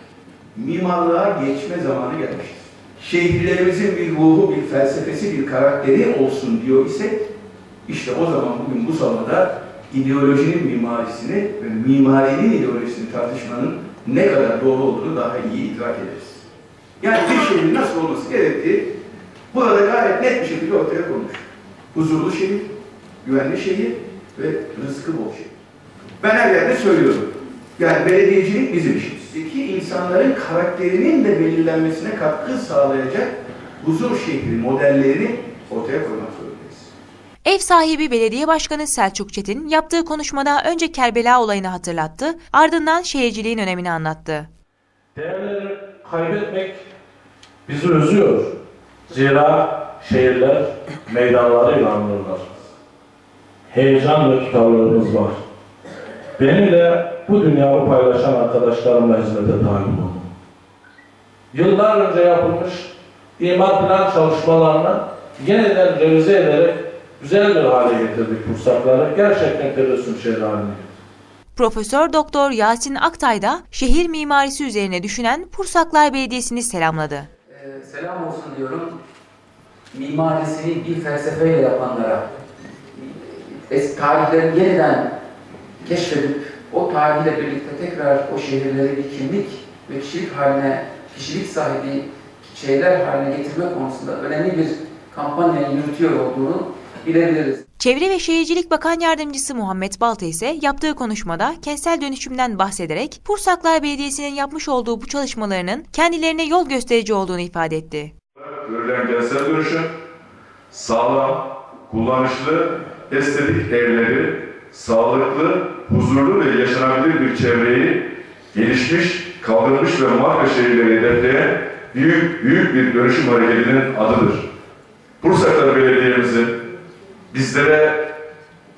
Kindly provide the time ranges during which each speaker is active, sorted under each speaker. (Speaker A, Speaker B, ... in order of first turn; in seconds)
Speaker A: 0.5-7.2, 7.8-16.4, 17.0-18.9, 19.5-22.7, 23.2-25.5, 26.2-36.9
Speaker B: 37.4-44.5, 71.5-77.3, 97.8-108.1
Speaker C: 45.1-46.8, 47.6-48.5, 49.1-52.7, 53.7-55.4, 56.4-60.3, 61.5-70.9
Speaker D: 77.5-79.0, 79.9-82.4, 82.9-85.1, 85.8-97.6
Speaker E: 108.4-109.9, 110.7-118.0, 118.5-124.5, 125.2-126.5, 127.3-127.9